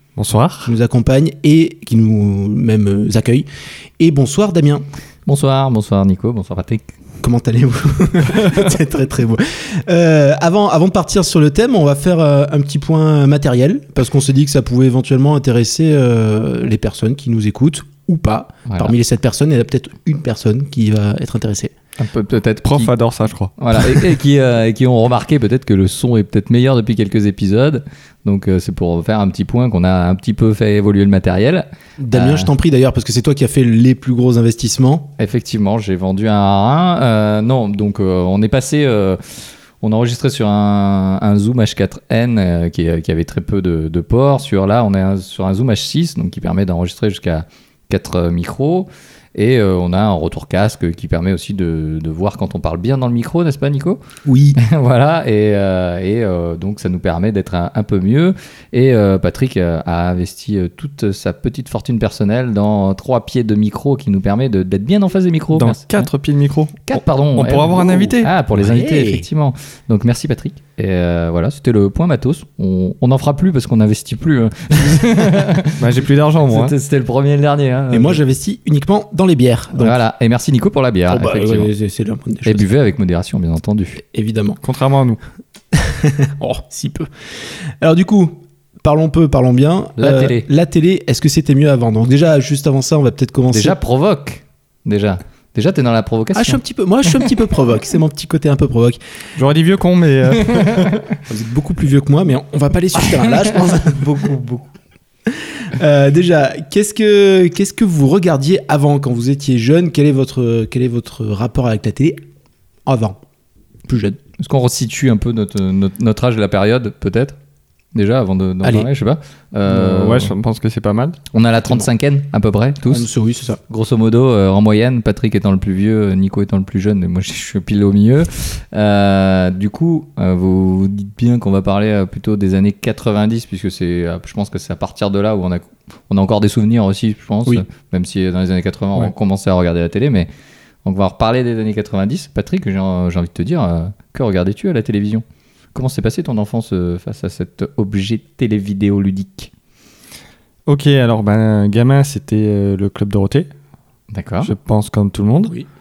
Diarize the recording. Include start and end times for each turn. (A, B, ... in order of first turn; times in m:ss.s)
0:00.2-0:00.7 A
0:00.6-0:03.4 B
0:04.0-0:04.8 B
0:05.2-0:06.8 C
0:07.2-0:21.7 B
0:22.0-0:22.9 C
0:22.6-0:23.6 A
0:23.6-0:32.5 C
0:32.0-0:35.1 B
0:35.2-0:54.0 C
0:54.2-0:54.6 B
0:54.6-1:06.1 C
1:05.5-1:08.3 A
1:06.9-1:15.8 C
1:08.6-1:09.2 B
1:15.8-1:16.7 A
1:16.5-1:18.2 C
1:17.9-1:20.0 B
1:19.7-1:21.7 C
1:21.1-1:22.6 B
1:22.4-1:24.0 C
1:24.0-1:24.6 B
1:24.6-1:25.2 A
1:25.7-1:27.1 B
1:27.8-1:33.8 B
1:30.0-1:30.5 C
1:33.5-1:37.4 C
1:36.3-1:39.0 B
1:39.4-1:40.9 A
1:40.4-1:41.1 C
1:41.2-1:44.3 B
1:43.2-1:44.7 C
1:45.3-1:52.2 B
1:52.9-1:53.2 B
1:53.9-1:54.2 B
1:54.2-1:57.4 C
1:57.9-2:00.3 C
1:58.6-1:58.9 B
1:59.7-2:01.2 A
2:01.3-2:03.1 C
2:02.9-2:03.6 B
2:03.7-2:20.3 C
2:20.8-2:29.5 C
2:30.7-2:33.5 A
2:34.1-2:34.5 C
2:34.4-2:35.5 A